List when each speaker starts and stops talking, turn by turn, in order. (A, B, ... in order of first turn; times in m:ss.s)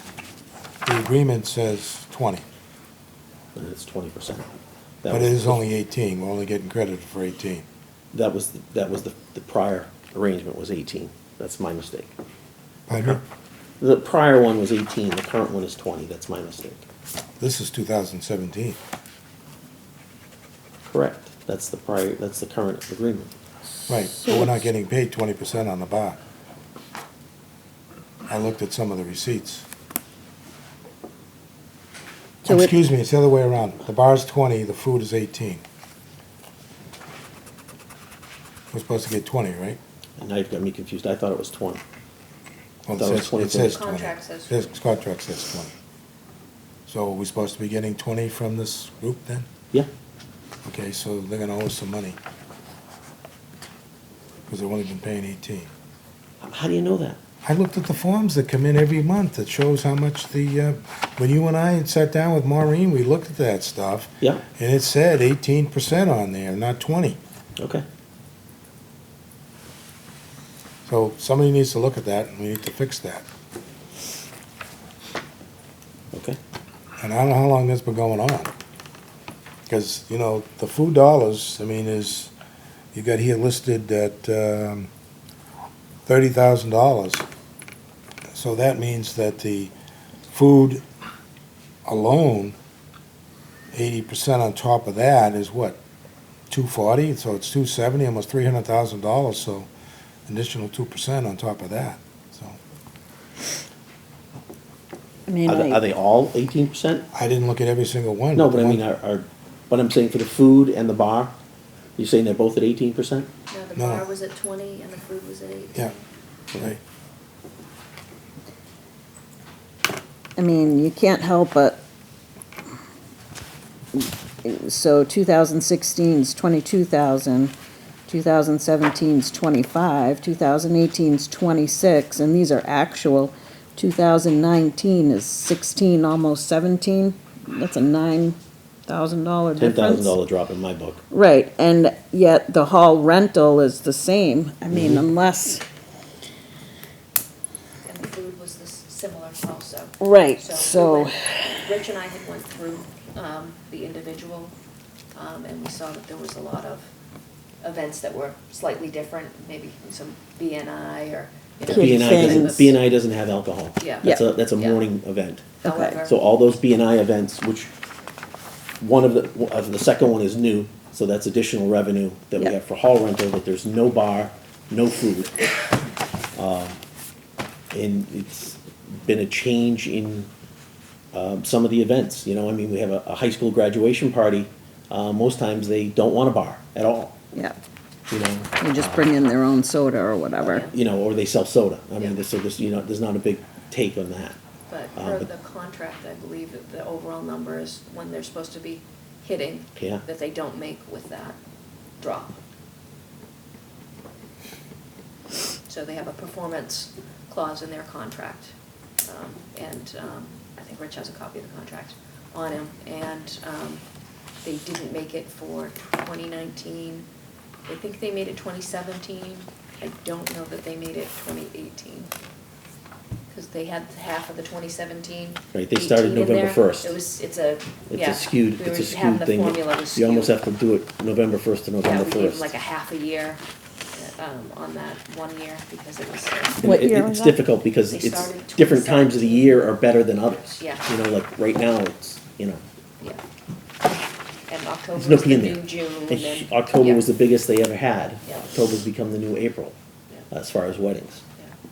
0:00.8-0:02.4 A
0:03.6-0:04.5 B
0:05.0-0:05.6 B
0:05.1-0:07.6 A
0:08.1-0:12.1 B
0:12.9-0:13.2 A
0:13.8-0:16.8 B
0:17.4-0:18.8 A
0:20.9-0:23.3 B
0:23.9-0:26.2 A
0:28.3-0:29.7 A
0:32.4-0:35.6 A
0:38.7-0:39.8 A
0:40.2-0:41.8 B
0:42.9-0:45.7 A
0:43.0-0:43.8 B
0:43.7-0:44.7 C
0:46.9-0:49.5 A
0:50.6-0:52.2 A
0:54.5-0:55.7 A
0:56.4-0:57.2 B
0:57.4-1:07.2 A
1:07.6-1:07.8 B
1:10.9-1:13.2 A
1:16.1-1:16.4 B
1:17.0-1:18.5 A
1:19.7-1:22.3 A
1:22.9-1:24.9 A
1:26.1-1:27.3 A
1:28.3-1:29.7 A
1:30.3-1:30.8 A
1:31.8-1:32.6 A
1:33.7-1:35.8 A
1:36.5-1:39.7 A
1:40.3-1:42.6 A
1:45.3-1:45.8 D
1:45.5-1:47.1 B
1:47.1-1:48.8 A
1:48.4-1:51.3 B
1:52.0-1:53.3 B
1:53.5-1:56.0 C
1:53.8-1:54.0 A
2:00.4-2:01.8 D
2:03.9-2:07.5 D
2:08.1-2:20.2 D
2:19.6-2:21.0 B
2:21.1-2:25.6 D
2:24.7-2:25.1 B
2:27.9-2:34.5 C
2:30.0-2:31.6 D
2:35.1-2:36.9 C
2:37.6-2:42.7 C
2:41.7-2:47.7 B
2:41.7-2:42.7 D
2:43.8-2:44.9 C
2:45.6-2:46.0 D
2:45.6-2:46.1 C
2:48.8-2:55.3 B
2:56.4-2:56.8 B
2:57.7-3:00.3 B
3:01.1-3:07.2 B
3:08.1-3:09.1 B
3:08.6-3:10.7 D
3:10.4-3:10.7 C
3:10.7-3:14.4 B
3:14.7-3:21.4 C
3:15.0-3:15.3 B
3:19.8-3:20.0 B
3:22.0-3:22.4 C
3:25.7-3:28.5 C
3:29.0-3:33.8 C
3:34.4-3:37.1 C
3:37.7-3:42.1 C
3:43.3-3:50.4 C
3:45.5-3:47.0 B
3:47.9-3:52.5 B
3:51.8-3:53.4 C
3:53.9-3:56.7 C
3:56.6-4:02.6 B
3:56.6-3:57.4 D
3:57.9-3:59.7 C
4:00.6-4:00.9 C
4:04.5-4:07.0 C
4:05.0-4:09.8 B
4:10.3-4:11.2 B